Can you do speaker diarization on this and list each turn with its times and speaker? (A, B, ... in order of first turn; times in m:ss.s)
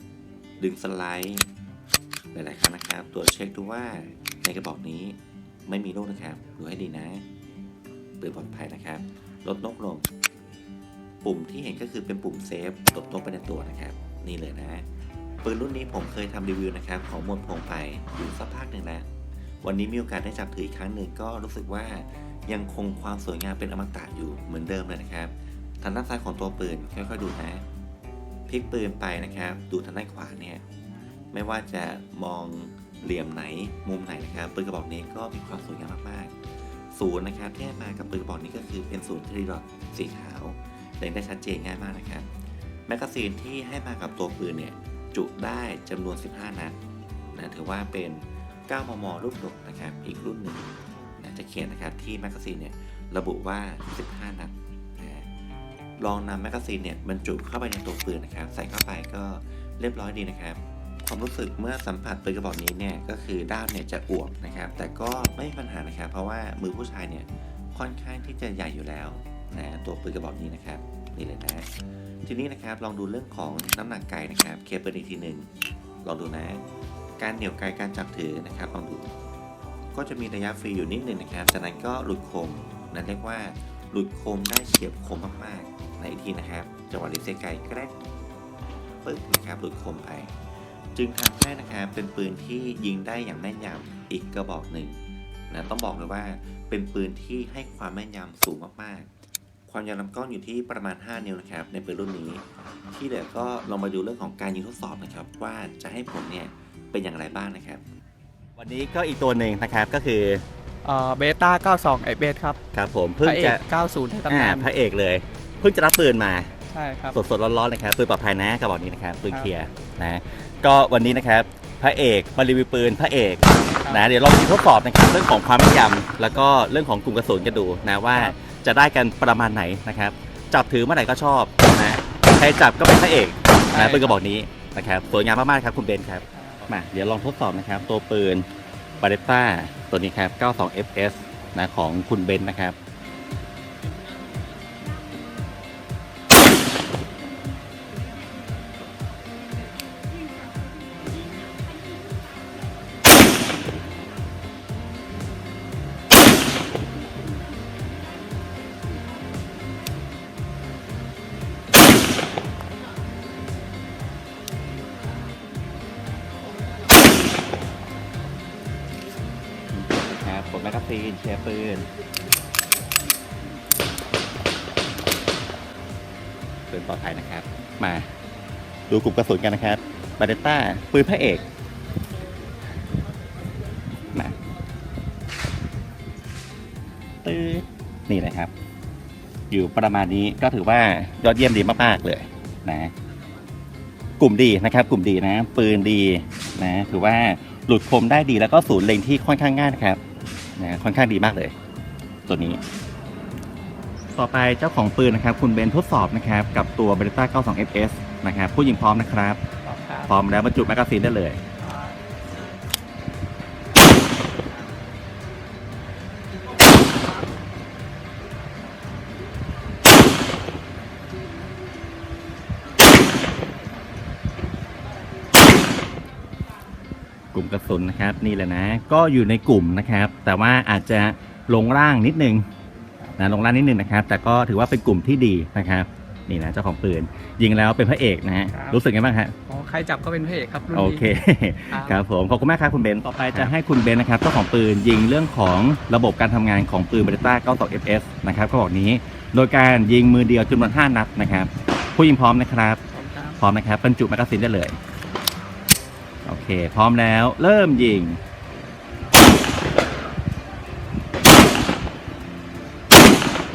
0:00.6-0:01.5 A
0:02.3-0:07.2 A
0:08.2-0:10.1 A
0:11.2-0:14.8 A
0:15.4-0:19.1 A
0:19.6-0:27.6 A
0:28.5-0:30.6 A
0:31.3-0:36.4 A
0:36.9-0:42.3 A
0:42.9-0:46.8 A
0:47.3-0:55.3 A
0:56.0-1:11.7 A
1:12.2-1:15.5 A
1:16.0-1:16.6 A
1:17.2-1:19.1 A
1:19.9-1:28.0 A
1:29.0-1:30.3 A
1:30.9-1:39.1 A
1:39.7-1:47.8 A
1:48.6-1:50.4 B
1:50.8-1:52.6 C
1:52.7-1:53.6 B
1:53.2-1:54.7 C
1:54.3-1:56.5 B
1:56.7-1:57.2 C
1:57.1-2:18.5 B
2:03.8-2:04.0 C
2:13.7-2:14.2 C
2:16.3-2:16.6 C
2:19.0-2:22.8 B
2:49.7-2:51.9 B
2:56.7-2:58.1 B
2:58.9-3:01.4 B
3:07.2-3:08.5 B
3:09.5-3:12.9 B
3:14.2-3:20.0 B
3:20.6-3:21.5 B
3:22.3-3:22.6 B
3:24.1-3:29.4 B
3:29.6-3:30.1 C
3:30.1-3:31.4 B
3:47.3-3:52.4 B
3:53.2-3:59.3 B
3:58.5-3:58.8 C
3:59.5-4:01.0 C
4:00.7-4:12.8 B
4:01.7-4:02.0 C
4:03.1-4:03.5 C
4:12.9-4:13.4 C
4:13.4-4:14.8 B
4:16.2-4:18.2 B